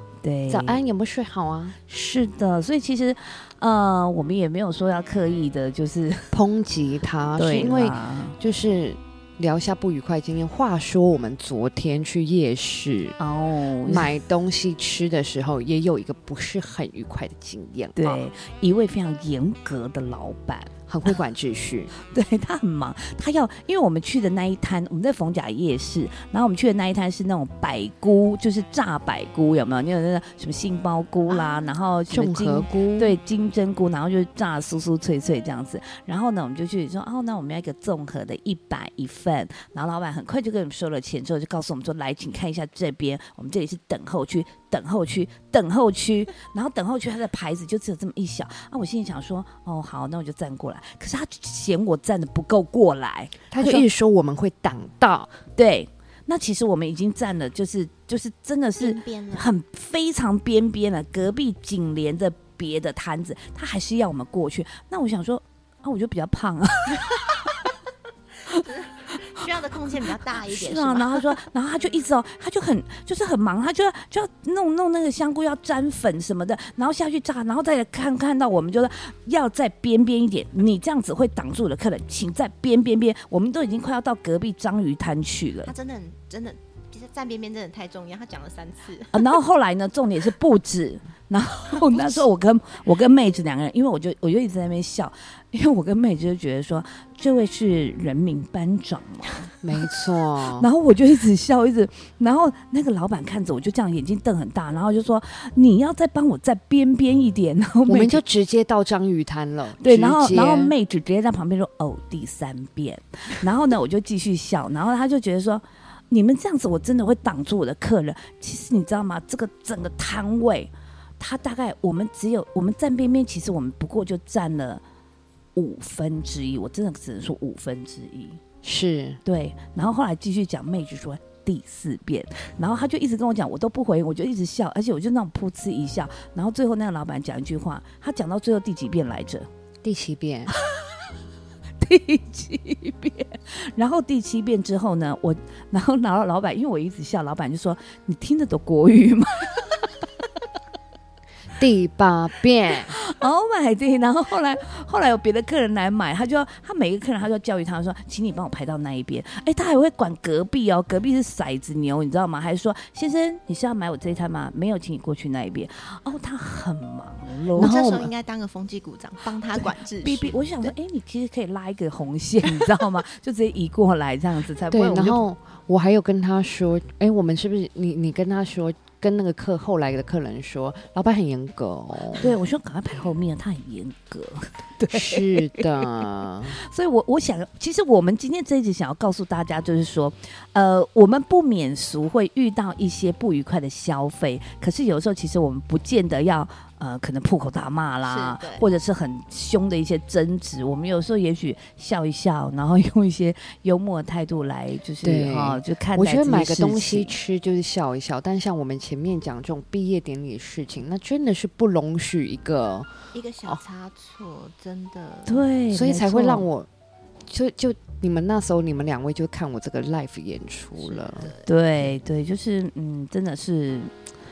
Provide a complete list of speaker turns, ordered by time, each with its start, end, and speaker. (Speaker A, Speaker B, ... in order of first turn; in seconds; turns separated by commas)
Speaker A: 0.2-0.8, Speaker B: 0.5-1.8, Speaker A: 1.9-6.3, Speaker B: 6.3-13.2, Speaker A: 7.4-8.4, Speaker A: 13.2-14.1, Speaker B: 13.8-18.2, Speaker A: 18.0-20.7, Speaker B: 20.9-21.9, Speaker A: 21.9-53.9, Speaker C: 31.3-31.7, Speaker B: 32.1-33.2, Speaker B: 53.5-55.3, Speaker A: 55.6-67.5, Speaker C: 58.8-59.5, Speaker C: 68.5-71.4, Speaker A: 70.4-85.7, Speaker C: 85.6-89.3, Speaker A: 89.1-99.5, Speaker C: 91.7-92.2, Speaker B: 99.6-100.7, Speaker A: 100.4-108.2, Speaker B: 107.9-110.8, Speaker A: 109.8-124.8, Speaker A: 125.5-128.4, Speaker B: 128.6-129.2, Speaker A: 129.2-139.5, Speaker B: 139.8-140.5, Speaker A: 140.5-141.1, Speaker A: 141.8-150.1, Speaker B: 151.6-153.0, Speaker A: 152.8-167.7, Speaker B: 167.6-168.1, Speaker C: 167.6-170.7, Speaker A: 170.0-175.2, Speaker B: 174.7-182.3, Speaker A: 182.2-207.2, Speaker B: 184.9-186.6, Speaker C: 198.0-198.6, Speaker B: 205.0-213.6, Speaker C: 213.1-215.4, Speaker A: 215.3-216.5, Speaker B: 215.7-216.7, Speaker B: 217.3-221.3, Speaker C: 220.8-221.5, Speaker A: 221.5-223.9